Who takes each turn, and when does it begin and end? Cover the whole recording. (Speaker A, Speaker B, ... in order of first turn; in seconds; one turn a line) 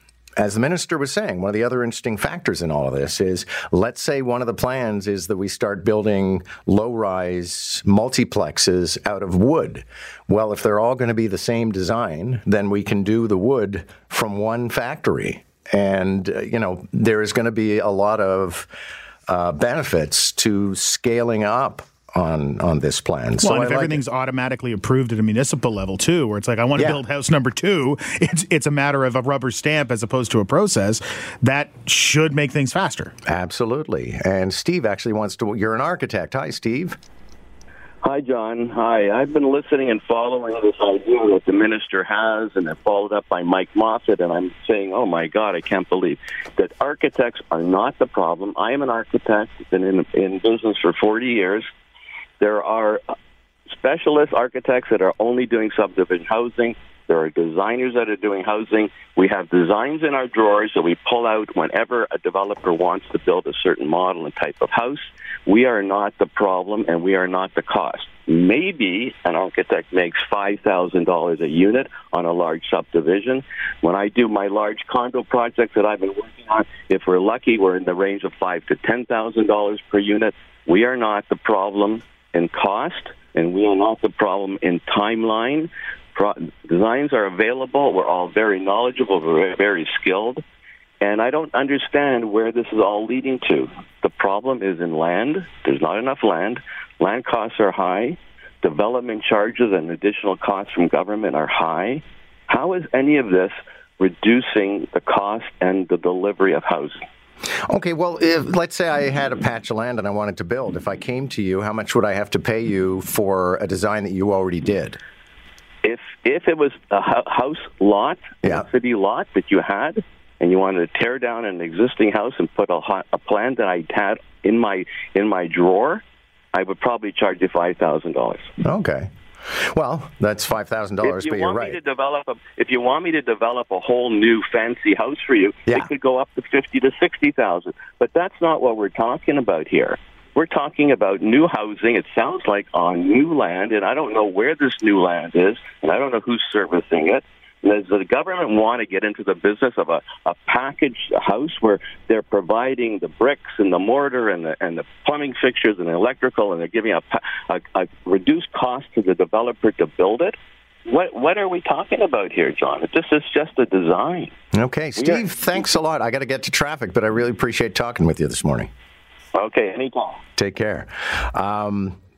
Speaker A: 0.4-18.7
Speaker A: 19.3-24.0
Speaker B: 23.4-33.1
Speaker A: 33.3-37.0
Speaker C: 38.0-51.7
Speaker C: 52.4-53.0
Speaker C: 53.7-90.4
Speaker C: 91.0-107.0
Speaker A: 107.7-115.0
Speaker C: 115.8-126.0
Speaker C: 126.5-128.5
Speaker A: 128.6-131.8
Speaker C: 131.0-160.3
Speaker C: 160.9-164.3
Speaker A: 164.5-168.7
Speaker C: 165.0-165.2
Speaker C: 169.3-170.2
Speaker A: 170.3-172.0